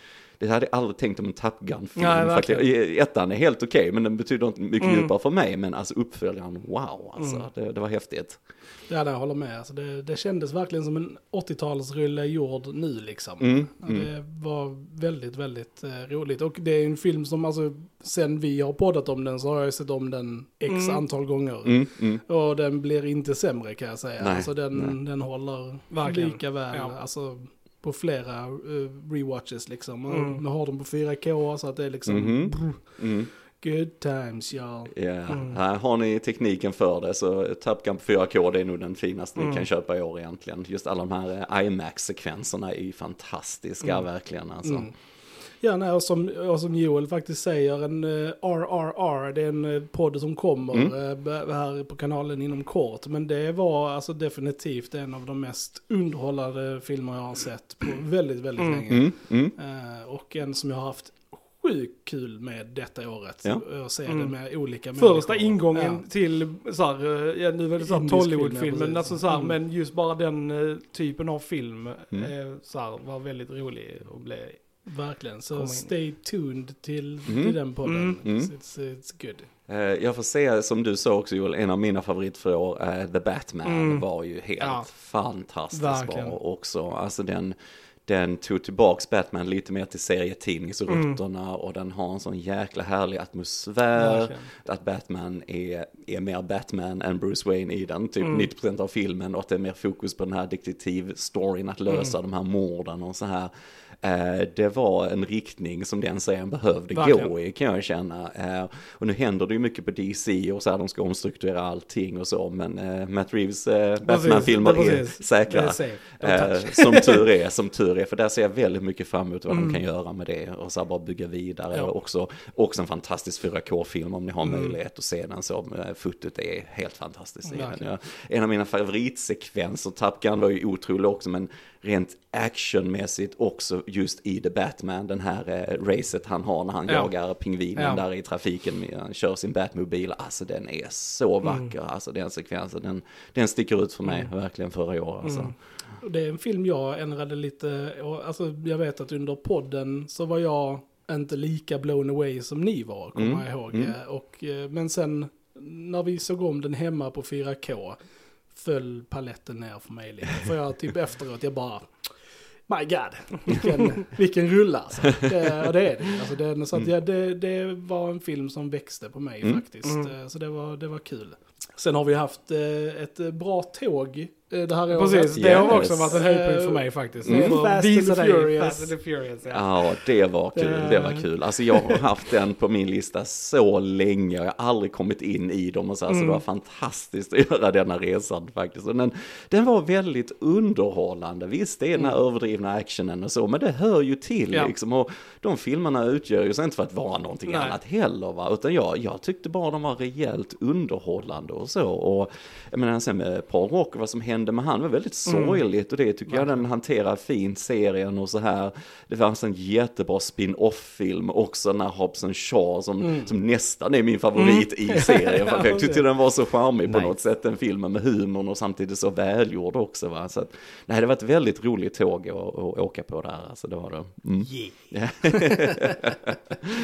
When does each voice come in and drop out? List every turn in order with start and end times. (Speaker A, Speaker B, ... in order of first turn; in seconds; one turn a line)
Speaker A: 0.4-8.4
Speaker B: 2.0-2.7
Speaker B: 4.8-5.1
Speaker B: 7.2-7.5
Speaker C: 8.9-34.9
Speaker A: 13.4-14.1
Speaker B: 20.7-21.0
Speaker A: 21.6-22.2
Speaker A: 24.2-25.0
Speaker B: 25.9-26.9
Speaker B: 30.1-30.4
Speaker A: 32.1-33.3
Speaker A: 34.9-44.9
Speaker B: 35.3-35.6
Speaker B: 39.4-39.7
Speaker C: 44.6-66.1
Speaker B: 58.6-58.9
Speaker A: 58.9-59.5
Speaker B: 64.1-74.9
Speaker C: 67.8-69.5
Speaker C: 74.8-79.5
Speaker B: 75.5-75.9
Speaker A: 77.3-77.6
Speaker B: 77.8-78.2
Speaker A: 78.2-78.5
Speaker A: 79.7-145.6
Speaker B: 83.7-84.0
Speaker B: 84.6-84.9
Speaker B: 85.7-86.4
Speaker B: 90.9-91.2
Speaker B: 94.0-94.5
Speaker B: 98.2-98.5
Speaker B: 101.9-102.2
Speaker B: 106.9-107.3
Speaker B: 114.0-117.2
Speaker B: 119.5-119.8
Speaker B: 124.4-124.8
Speaker C: 127.6-127.8
Speaker B: 136.9-137.1
Speaker B: 137.8-138.0
Speaker B: 141.4-141.7
Speaker B: 144.1-144.3
Speaker B: 145.2-145.5
Speaker C: 146.0-158.0
Speaker A: 153.2-153.9
Speaker C: 158.5-178.9
Speaker B: 169.8-170.1
Speaker B: 174.9-179.8
Speaker A: 175.3-176.2
Speaker A: 177.3-177.6
Speaker A: 179.5-226.4
Speaker C: 180.6-181.2
Speaker B: 186.1-186.4
Speaker B: 197.5-197.8
Speaker B: 205.3-205.6
Speaker C: 213.0-213.3
Speaker B: 214.3-216.1